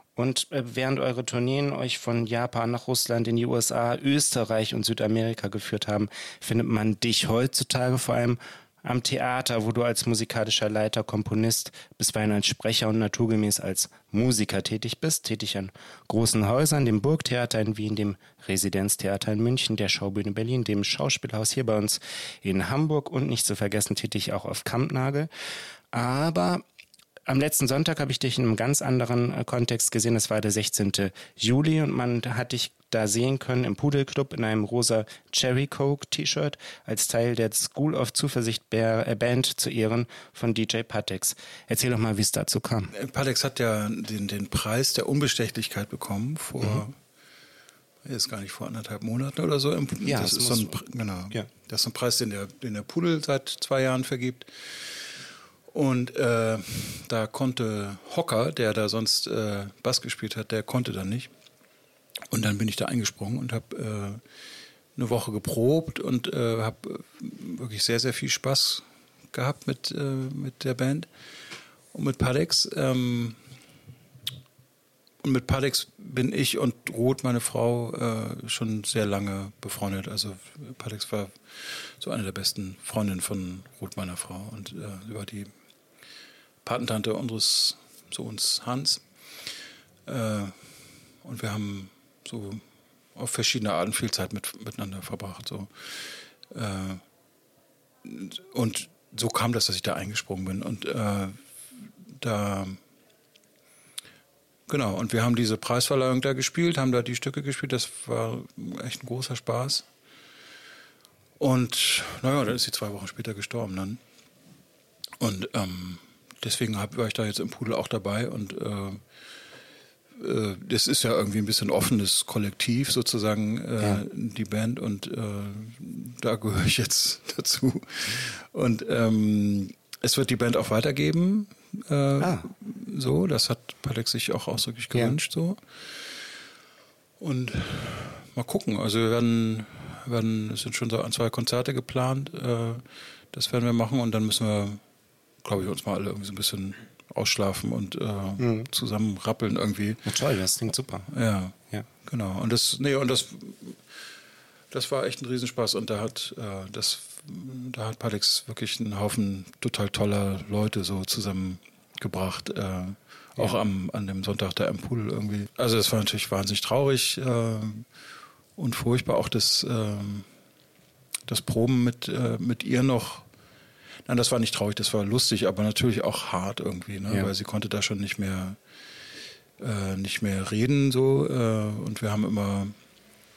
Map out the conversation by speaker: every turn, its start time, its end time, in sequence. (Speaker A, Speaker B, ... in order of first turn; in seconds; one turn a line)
Speaker A: 0.1-25.3
Speaker A: 25.9-26.6
Speaker A: 27.3-42.9
Speaker B: 42.9-46.9
Speaker B: 48.0-55.1
Speaker A: 50.0-50.8
Speaker B: 55.7-61.3
Speaker B: 62.3-64.2
Speaker B: 65.0-71.1
Speaker B: 71.9-73.4
Speaker B: 75.2-85.5
Speaker B: 86.6-89.0
Speaker B: 90.1-90.6
Speaker B: 91.2-92.6
Speaker B: 93.1-97.0
Speaker B: 98.0-102.8
Speaker B: 104.7-109.8
Speaker B: 111.4-114.0
Speaker B: 115.2-119.0
Speaker B: 120.2-135.6
Speaker A: 132.2-132.5
Speaker B: 137.2-144.8
Speaker B: 145.4-150.1
Speaker A: 148.4-148.7
Speaker A: 150.1-151.1
Speaker B: 151.1-153.8
Speaker B: 154.7-167.8
Speaker B: 168.6-170.3
Speaker B: 171.3-173.2
Speaker B: 174.1-178.6
Speaker B: 179.6-182.7